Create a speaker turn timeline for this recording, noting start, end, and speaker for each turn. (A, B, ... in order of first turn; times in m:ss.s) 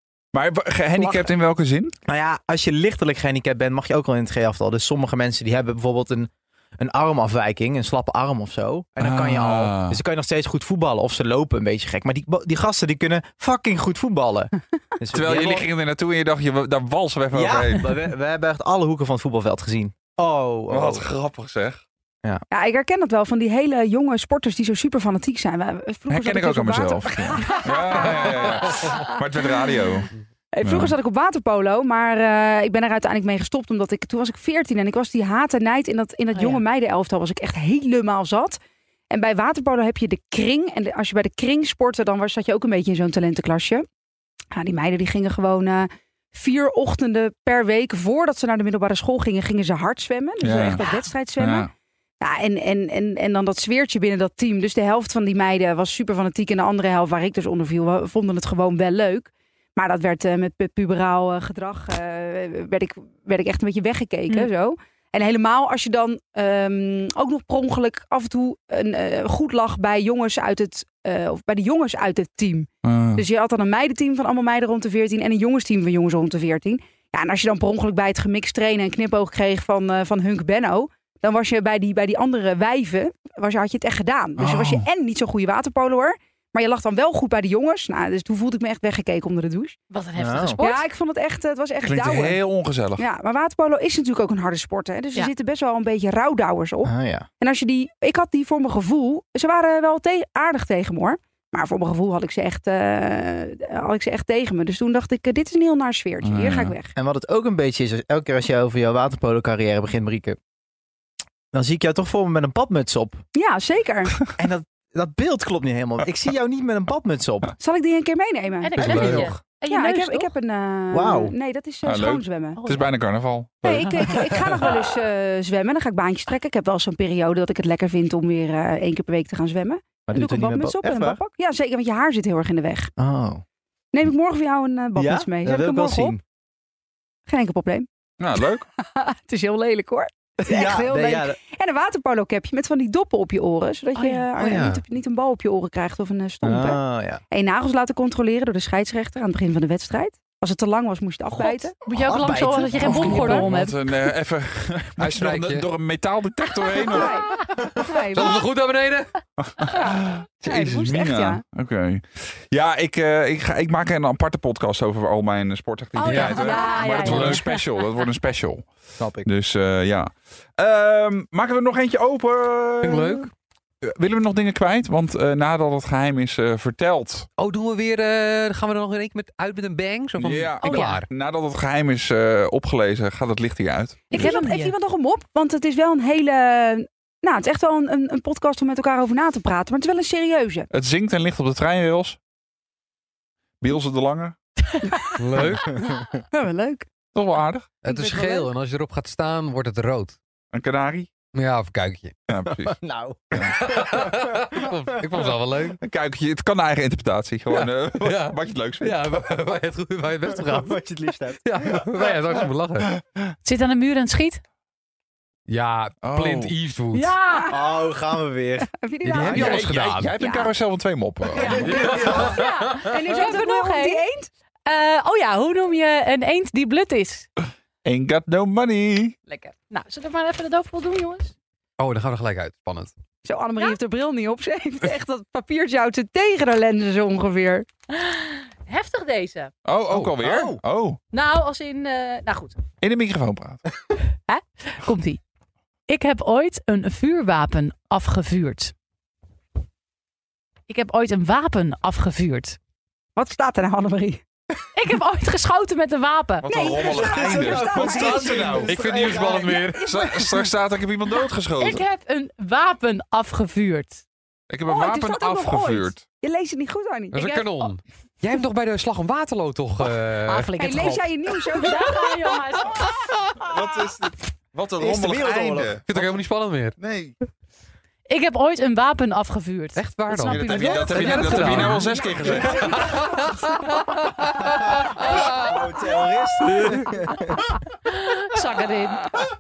0:00.3-0:01.9 A
0:02.1-0:15.7 B
0:09.0-0:10.0 A
0:15.1-0:17.9 A
0:17.3-0:21.1 B
0:20.7-0:21.8 A
0:22.5-0:29.0 C
0:26.1-0:30.1 A
0:30.5-0:38.6 C
0:30.6-0:31.0 A
0:36.3-0:36.6 D
0:39.1-0:43.9 C
0:44.5-0:51.7 C
0:50.4-0:51.7 A
0:52.2-1:29.8 C
1:12.8-1:13.2 A
1:24.4-1:24.9 A
1:29.9-1:30.9 D
1:30.2-1:30.7 B
1:30.6-1:32.4 C
1:31.8-1:33.0 A
1:33.0-1:46.9 C
1:36.8-1:37.3 B
1:46.2-1:46.8 A
1:47.0-1:50.4 B
1:51.5-1:53.2 B
1:53.4-1:54.2 C
1:54.4-1:57.5 B
1:57.6-2:02.6 C
1:58.6-2:00.3 D
1:58.8-1:59.3 E
1:58.8-1:59.4 B
2:00.9-2:01.3 B
2:01.8-2:04.3 A
2:02.6-2:02.9 D
2:03.6-2:12.9 C
2:03.8-2:04.1 D
2:10.1-2:11.2 B
2:13.0-2:13.4 B
2:13.9-2:16.2 C
2:15.0-2:16.2 B
2:17.3-2:17.9 C
2:18.2-2:18.7 A
2:18.8-2:26.8 C
2:20.4-2:21.4 B
2:24.0-2:24.3 D
2:24.4-2:24.8 E
2:26.4-2:27.2 B
2:27.3-2:31.8 C
2:31.4-2:33.8 D
2:31.9-2:33.4 B
2:32.8-2:33.5 C
2:32.9-2:37.2 A
2:35.0-2:35.7 E
2:36.9-2:38.4 C
2:37.4-2:39.1 E
2:39.4-2:48.7 A
2:39.7-2:41.4 C
2:46.0-2:47.6 D
2:46.0-2:47.4 E
2:46.5-2:46.8 C
2:49.0-2:49.3 B
2:49.2-2:53.3 A
2:52.8-2:53.3 E
2:53.8-2:57.3 A
2:57.4-3:01.1 E
3:00.2-3:04.3 A
3:00.6-3:01.0 D
3:04.1-3:04.8 D
3:04.1-3:10.7 C
3:10.7-3:12.2 A
3:13.6-3:14.4 A
3:15.0-3:16.9 C
3:15.2-3:15.7 E
3:15.7-3:16.0 B
3:17.1-3:17.7 A
3:17.8-3:20.2 E
3:17.9-3:18.5 C
3:20.5-3:21.1 A
3:21.3-3:22.2 E
3:22.3-3:22.8 A
3:22.6-3:24.8 B
3:23.3-3:23.6 A
3:23.5-3:25.8 E
3:25.8-3:29.0 A
3:27.5-3:30.8 E
3:30.3-3:31.8 B
3:31.4-3:32.9 E
3:33.4-3:34.4 D
3:35.5-3:37.1 E
3:36.0-3:36.5 A
3:36.9-3:37.5 D
3:37.2-3:37.7 C
3:37.5-3:38.7 B
3:38.7-3:40.5 C
3:39.0-3:40.1 E
3:39.2-3:41.6 A
3:41.4-3:44.3 C
3:41.4-3:42.5 B
3:41.6-3:42.5 E
3:42.7-3:44.0 D
3:44.7-3:47.3 D
3:47.8-3:49.2 A
3:49.3-3:51.3 D
3:51.8-3:52.9 E
3:53.2-3:57.7 C
3:57.9-3:59.5 D
3:59.6-4:01.0 A
3:59.9-4:00.6 B
4:01.1-4:02.6 D
4:02.8-4:03.6 A
4:04.3-4:05.2 D
4:05.9-4:08.7 D
4:10.7-4:12.6 D
4:13.2-4:14.2 C
4:14.8-4:16.5 D
4:16.4-4:18.8 A
4:16.5-4:18.6 C
4:16.8-4:20.1 B
4:18.6-4:20.4 E
4:19.8-4:21.8 A
4:21.6-4:24.0 D
4:24.5-4:26.0 A
4:24.7-4:27.2 C
4:27.1-4:31.0 E
4:27.2-4:27.7 D
4:30.3-4:33.1 D
4:30.6-4:32.4 C
4:33.4-4:36.1 A
4:34.8-4:35.8 B
4:35.9-4:36.8 E
4:36.8-4:37.1 A
4:38.1-4:43.2 D
4:39.8-4:44.5 E
4:40.3-4:42.8 A
4:44.7-4:47.4 B
4:45.0-4:45.5 E
4:47.9-4:49.2 D